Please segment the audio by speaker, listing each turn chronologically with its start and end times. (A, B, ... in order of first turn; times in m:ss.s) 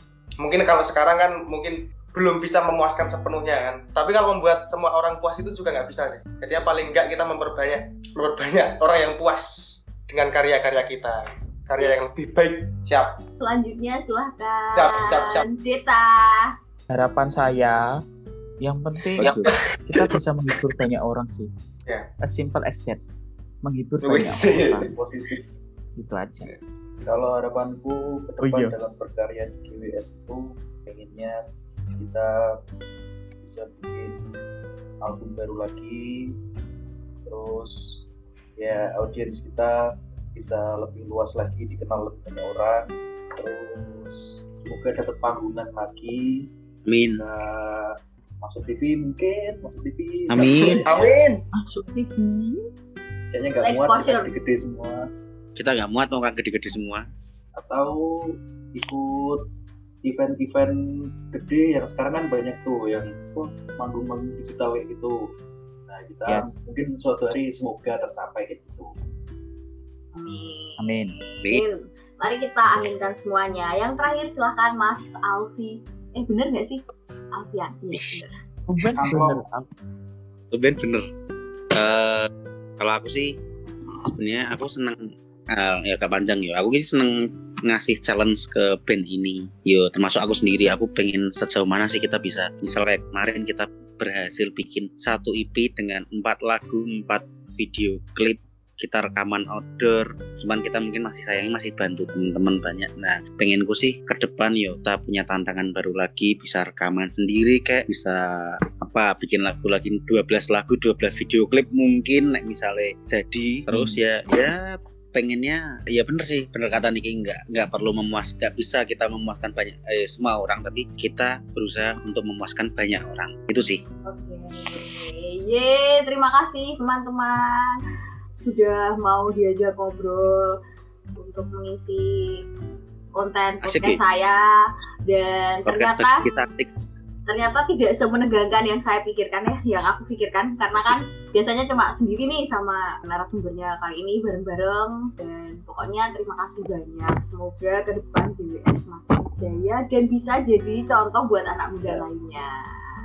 0:00.4-0:13.1 A
0:13.4-0:16.5 B
0:14.7-0:15.5 A
0:16.9-0:17.9 C
0:18.6-0:21.5 C
0:19.2-0:20.2 A
0:19.2-0:19.5 D
0:22.2-0:23.0 C
0:23.6-0:24.9 C
0:24.0-0:24.9 A
0:24.8-0:25.4 E
0:26.0-0:26.5 C
0:27.1-0:31.4 E
0:28.4-0:28.7 C
0:32.0-0:32.3 E
0:33.4-0:34.2 E
0:35.0-0:36.3 E
0:37.2-0:38.0 E
0:38.6-0:46.5 E
0:46.9-0:47.2 D
0:47.0-0:51.1 E
0:50.3-0:50.8 D
0:50.6-0:51.4 A
0:51.6-0:52.6 C
0:53.3-0:55.0 E
0:53.6-0:54.3 B
0:55.6-0:57.0 D
0:57.6-0:58.0 E
0:58.7-0:59.4 E
1:00.0-1:05.2 E
1:05.9-1:08.9 E
1:06.3-1:06.5 C
1:10.1-1:16.8 B
1:10.8-1:11.2 C
1:17.3-1:18.3 B
1:18.7-1:19.7 C
1:18.9-1:19.4 E
1:20.5-1:21.1 D
1:21.7-1:22.3 D
1:22.8-1:23.4 D
1:24.0-1:25.0 D
1:25.5-2:03.8 D
1:53.7-1:54.0 C
2:04.1-2:07.8 B
2:08.4-2:10.6 B
2:11.2-2:12.4 B
2:13.2-2:14.4 B
2:13.6-2:14.0 D
2:15.1-2:16.2 B
2:15.7-2:16.7 D
2:17.3-2:32.5 B